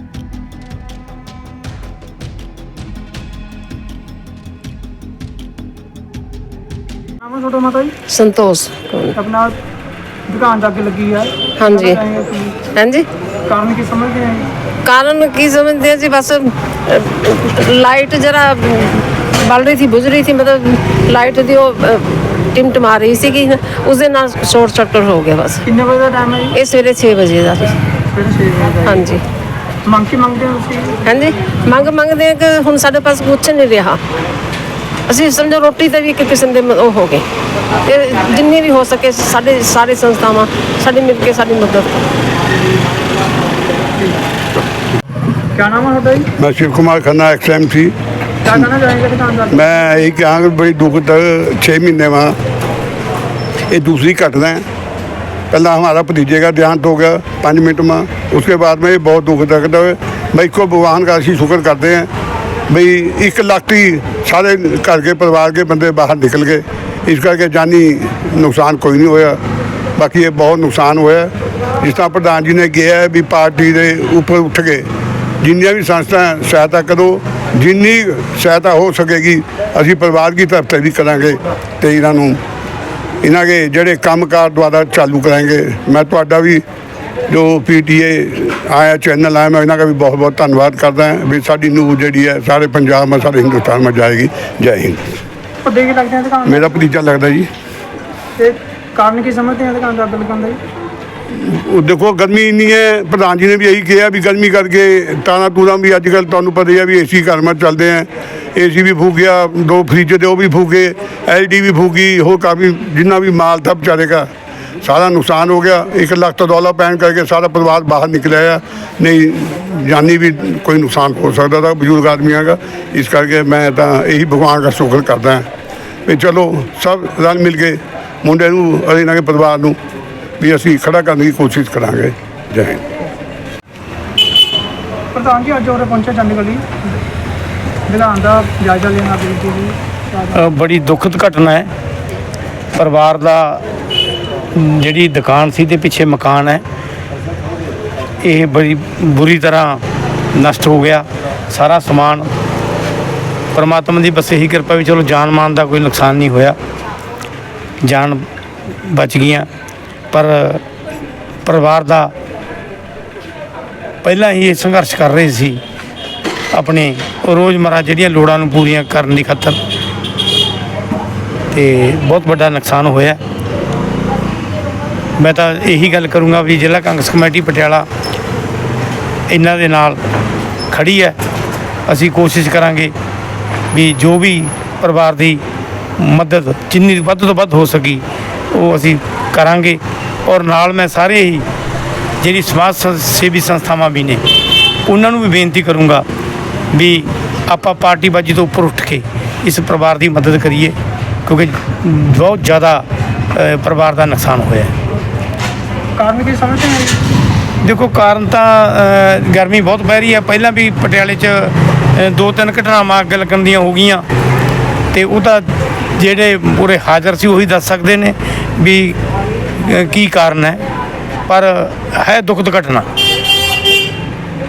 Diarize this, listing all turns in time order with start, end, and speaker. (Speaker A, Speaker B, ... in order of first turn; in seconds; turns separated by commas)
Speaker A: 7.2-8.0, Speaker B: 8.1-9.1, Speaker A: 9.2-9.6, Speaker A: 10.3-12.7, Speaker B: 11.6-11.9, Speaker B: 12.8-13.1, Speaker A: 13.5-14.5, Speaker B: 14.8-25.6, Speaker A: 25.6-26.6, Speaker B: 26.6-27.8, Speaker A: 28.1-29.1, Speaker B: 28.9-29.2, Speaker A: 29.9-31.1, Speaker B: 31.1-34.0, Speaker B: 35.1-37.2, Speaker B: 37.9-42.0, Speaker A: 45.5-46.3, Speaker C: 46.4-48.0, Speaker A: 48.4-49.6, Speaker C: 49.5-52.4, Speaker C: 53.7-54.6, Speaker C: 55.5-62.1, Speaker C: 62.7-69.4, Speaker C: 70.0-74.9, Speaker C: 75.4-82.4, Speaker C: 83.2-86.6, Speaker C: 87.3-95.2, Speaker A: 95.6-96.8, Speaker C: 96.5-97.5, Speaker A: 98.4-100.6, Speaker C: 101.3-114.3, Speaker C: 114.8-125.5, Speaker C: 126.1-129.8, Speaker C: 130.4-132.8, Speaker A: 135.1-137.0, Speaker A: 137.9-140.4, Speaker D: 140.3-141.7, Speaker D: 142.7-143.6, Speaker D: 144.5-146.6, Speaker D: 148.2-149.8, Speaker D: 150.3-152.3, Speaker D: 153.5-156.6, Speaker D: 157.8-158.2, Speaker D: 158.9-159.5, Speaker D: 160.1-160.6, Speaker D: 161.4-162.1, Speaker D: 164.0-165.6, Speaker D: 166.5-169.6, Speaker D: 171.5-173.2, Speaker D: 175.2-177.9, Speaker D: 179.3-180.0, Speaker D: 180.7-181.2, Speaker D: 181.9-182.9, Speaker D: 183.7-185.4, Speaker D: 186.0-191.4, Speaker D: 192.2-194.2, Speaker D: 194.9-196.0, Speaker D: 196.7-200.8, Speaker D: 201.3-204.7, Speaker A: 206.0-207.0, Speaker D: 207.6-214.0, Speaker D: 214.9-219.0, Speaker D: 219.6-220.6, Speaker D: 221.3-222.9